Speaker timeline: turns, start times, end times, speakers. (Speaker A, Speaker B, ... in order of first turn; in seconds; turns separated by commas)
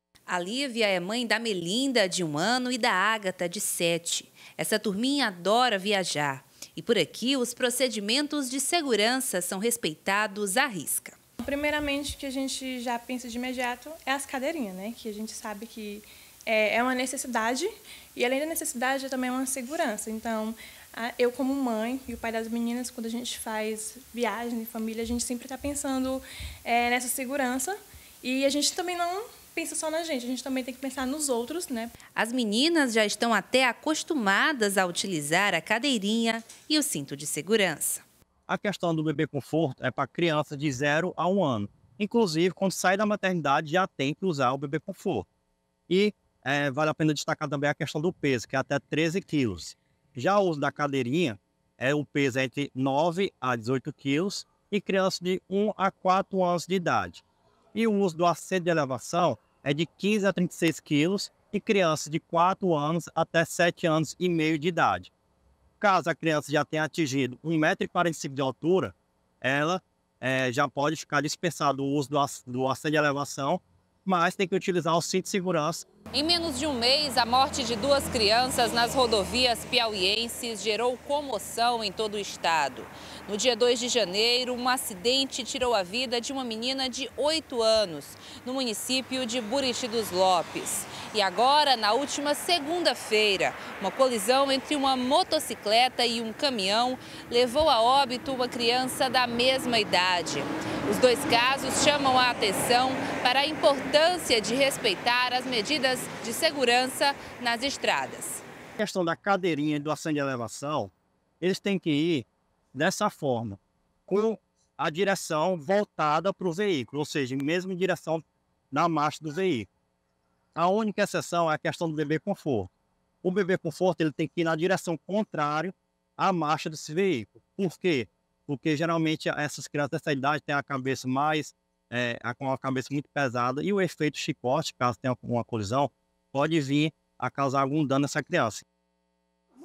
Speaker A: 0.3-11.2, Speaker B: 11.4-31.9, Speaker A: 32.1-38.0, Speaker C: 38.5-45.3, Speaker C: 45.9-57.2, Speaker C: 57.7-65.1, Speaker C: 65.8-75.8, Speaker A: 76.1-108.4, Speaker C: 108.8-119.7, Speaker C: 120.6-122.7, Speaker C: 123.2-138.7